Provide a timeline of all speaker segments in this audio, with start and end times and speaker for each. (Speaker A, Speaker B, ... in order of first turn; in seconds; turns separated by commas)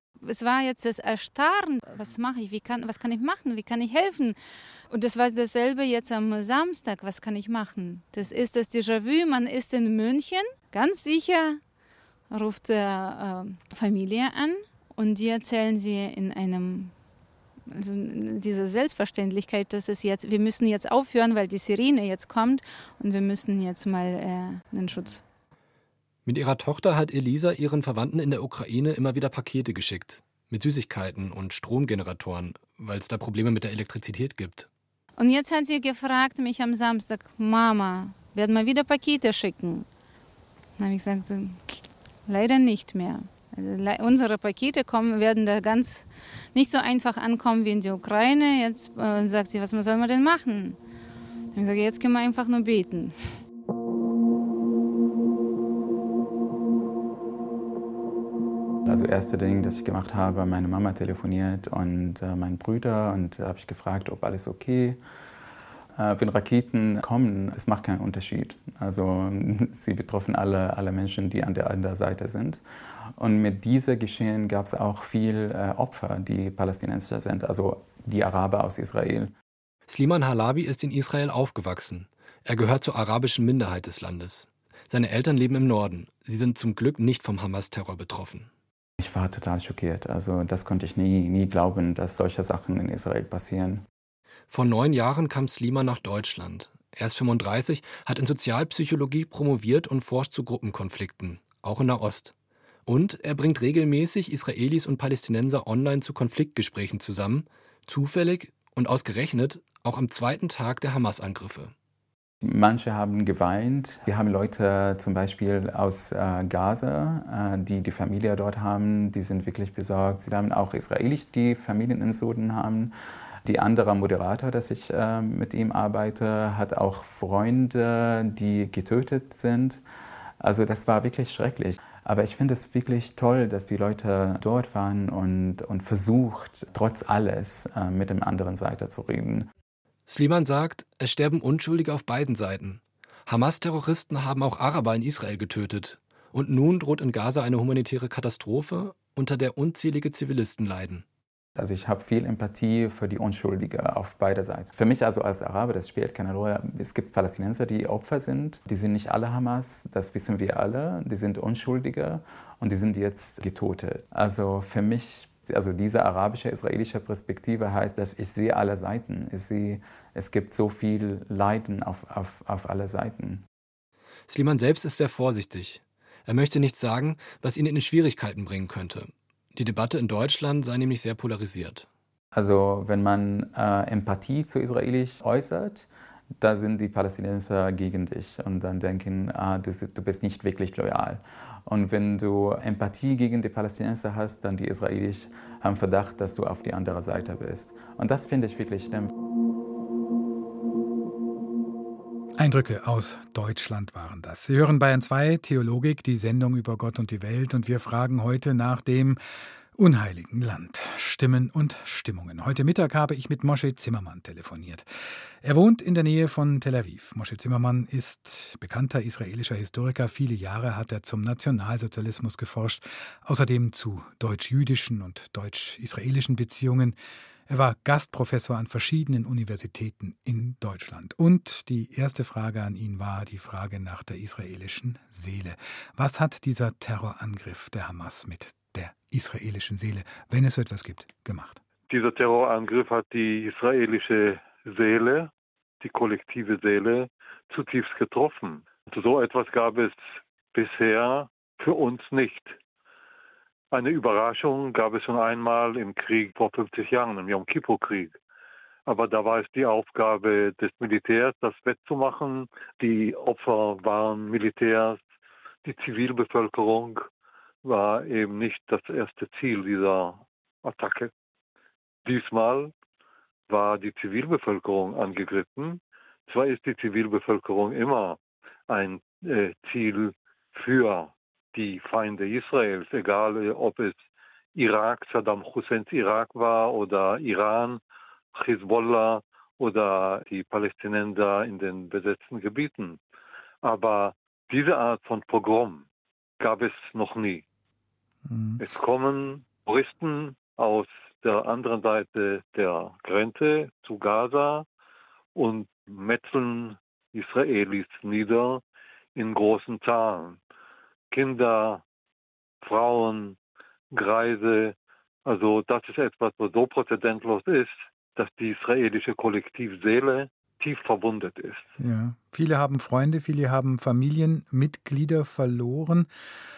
Speaker A: 0.2-4.4, Speaker A: 4.9-11.6, Speaker A: 12.3-16.9, Speaker A: 17.7-25.2, Speaker B: 26.2-34.7, Speaker A: 35.2-39.9, Speaker A: 40.8-50.8, Speaker A: 51.5-53.2, Speaker C: 58.9-65.0, Speaker C: 66.0-72.6, Speaker C: 73.2-79.3, Speaker B: 79.9-88.5, Speaker C: 89.0-93.9, Speaker B: 94.5-102.3, Speaker B: 102.9-111.7, Speaker C: 112.4-129.8, Speaker C: 130.4-139.5, Speaker B: 140.1-151.1, Speaker C: 151.6-173.4, Speaker B: 174.3-181.9, Speaker C: 182.3-199.1, Speaker D: 202.4-209.2, Speaker D: 209.8-214.9, Speaker D: 215.4-227.0, Speaker D: 227.5-241.6, Speaker E: 241.9-245.3, Speaker E: 245.8-250.0, Speaker E: 250.5-252.6, Speaker E: 253.7-258.1, Speaker E: 258.9-265.0, Speaker E: 265.6-267.1, Speaker E: 267.6-271.1, Speaker E: 272.1-272.7, Speaker E: 273.5-284.0, Speaker E: 284.6-287.8, Speaker E: 288.3-293.0, Speaker E: 293.6-295.8, Speaker E: 296.4-297.4, Speaker D: 298.3-298.6, Speaker E: 298.6-304.6, Speaker E: 305.4-308.6, Speaker E: 309.1-310.4, Speaker E: 311.1-311.8, Speaker E: 312.6-313.4, Speaker E: 313.9-314.7, Speaker E: 315.2-321.7, Speaker D: 321.8-326.1